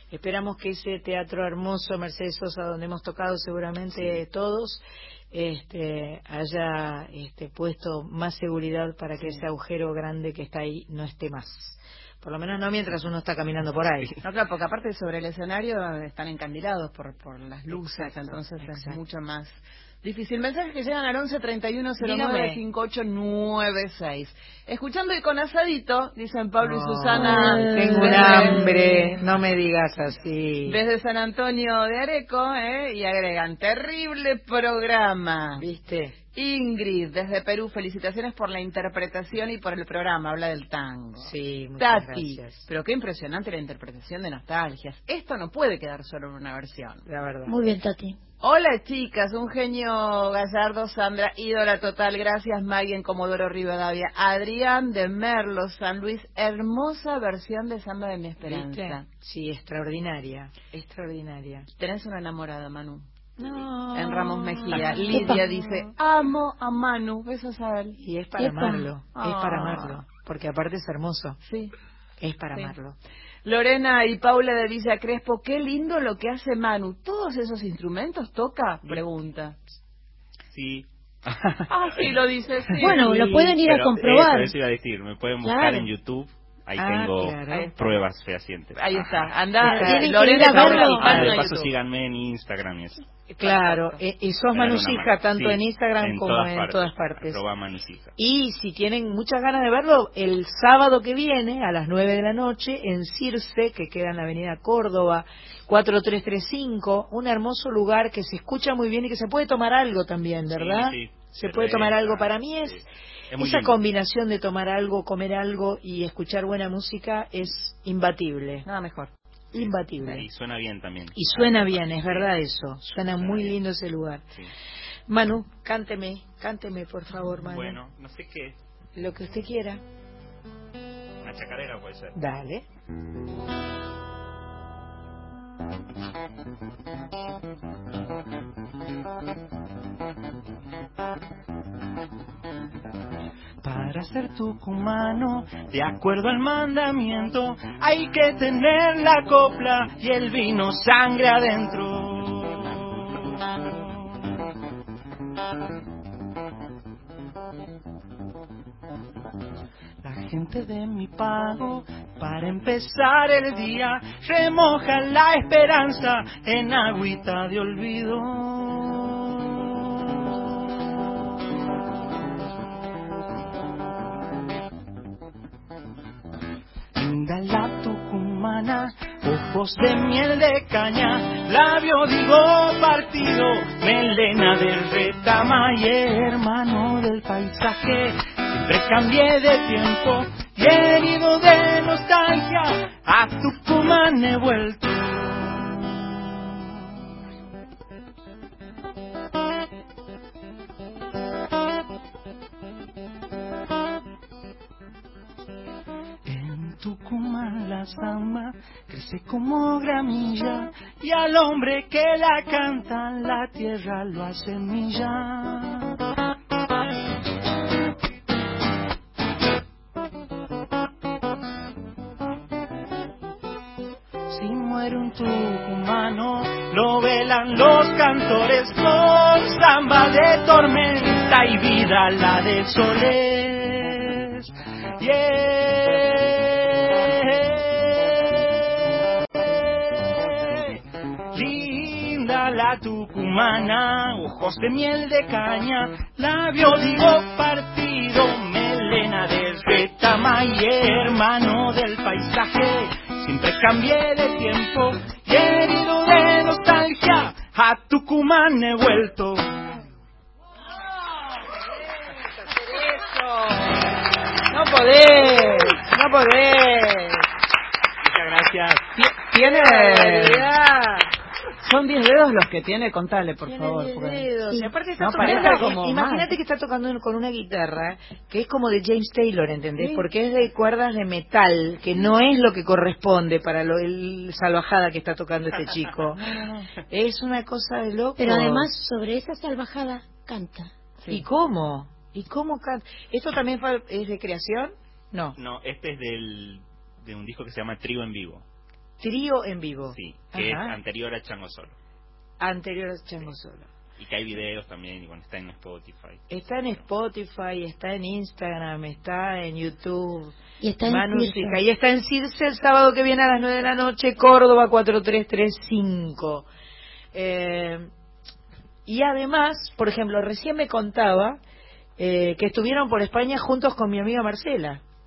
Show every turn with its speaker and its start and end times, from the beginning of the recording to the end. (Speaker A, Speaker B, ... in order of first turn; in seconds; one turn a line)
Speaker A: 0.1-14.1
Speaker B: 9.2-9.5
Speaker B: 14.2-29.2
Speaker A: 17.7-19.0
Speaker A: 22.0-22.6
Speaker A: 26.6-30.8
Speaker B: 30.7-35.7
Speaker A: 35.6-36.2
Speaker B: 36.4-47.1
Speaker A: 41.2-42.6
Speaker A: 47.1-47.5
Speaker C: 47.5-48.2
Speaker B: 48.4-59.1
Speaker A: 58.4-61.7
Speaker B: 61.8-68.0
Speaker A: 63.4-65.9
Speaker C: 65.1-65.4
Speaker A: 68.0-71.4
Speaker C: 68.4-68.9
Speaker B: 69.2-70.0
Speaker B: 71.5-71.7
Speaker A: 72.2-73.0
Speaker B: 73.5-79.6
Speaker D: 80.5-81.4
Speaker B: 81.7-83.5
Speaker C: 82.8-84.5
Speaker D: 83.5-89.3
Speaker C: 85.4-85.9
Speaker A: 86.8-87.7
Speaker B: 87.5-87.8
Speaker B: 88.8-91.7
Speaker C: 89.6-91.4
Speaker A: 89.6-91.4
Speaker D: 90.7-93.0
Speaker A: 93.3-97.4
Speaker B: 93.4-94.0
Speaker D: 94.5-98.2
Speaker A: 98.2-112.9
Speaker D: 110.5-112.8
Speaker D: 113.3-113.8
Speaker A: 113.4-118.7
Speaker B: 118.7-119.1
Speaker A: 119.5-120.3
Speaker D: 119.5-122.3
Speaker A: 121.2-124.2
Speaker D: 123.1-123.6
Speaker A: 125.1-127.8
Speaker D: 127.3-128.6
Speaker A: 129.0-129.8
Speaker D: 131.2-132.2
Speaker A: 132.2-132.7
Speaker E: 143.6-153.0
Speaker E: 160.0-169.6
Speaker E: 176.9-195.9
Speaker E: 206.3-216.0
Speaker E: 224.3-238.4
Speaker E: 239.9-240.8
Speaker E: 241.3-259.5
Speaker A: 262.7-263.3
Speaker B: 264.5-267.2
Speaker A: 264.5-265.9
Speaker D: 268.0-269.0
Speaker B: 269.3-270.5
Speaker A: 269.3-271.1
Speaker B: 271.6-274.3
Speaker A: 273.4-286.2
Speaker C: 274.5-275.6
Speaker B: 275.0-276.3
Speaker C: 279.8-280.1
Speaker B: 286.2-286.6
Speaker A: 286.9-288.7
Speaker C: 288.2-290.7
Speaker A: 291.1-295.4
Speaker D: 295.4-298.4
Speaker A: 299.0-300.8
Speaker D: 299.9-301.8
Speaker A: 302.4-303.7
Speaker D: 304.0-306.8
Speaker A: 306.3-316.5
Speaker C: 310.6-311.6
Speaker A: 317.1-317.9
Speaker A: 318.9-321.4
Speaker A: 322.0-324.8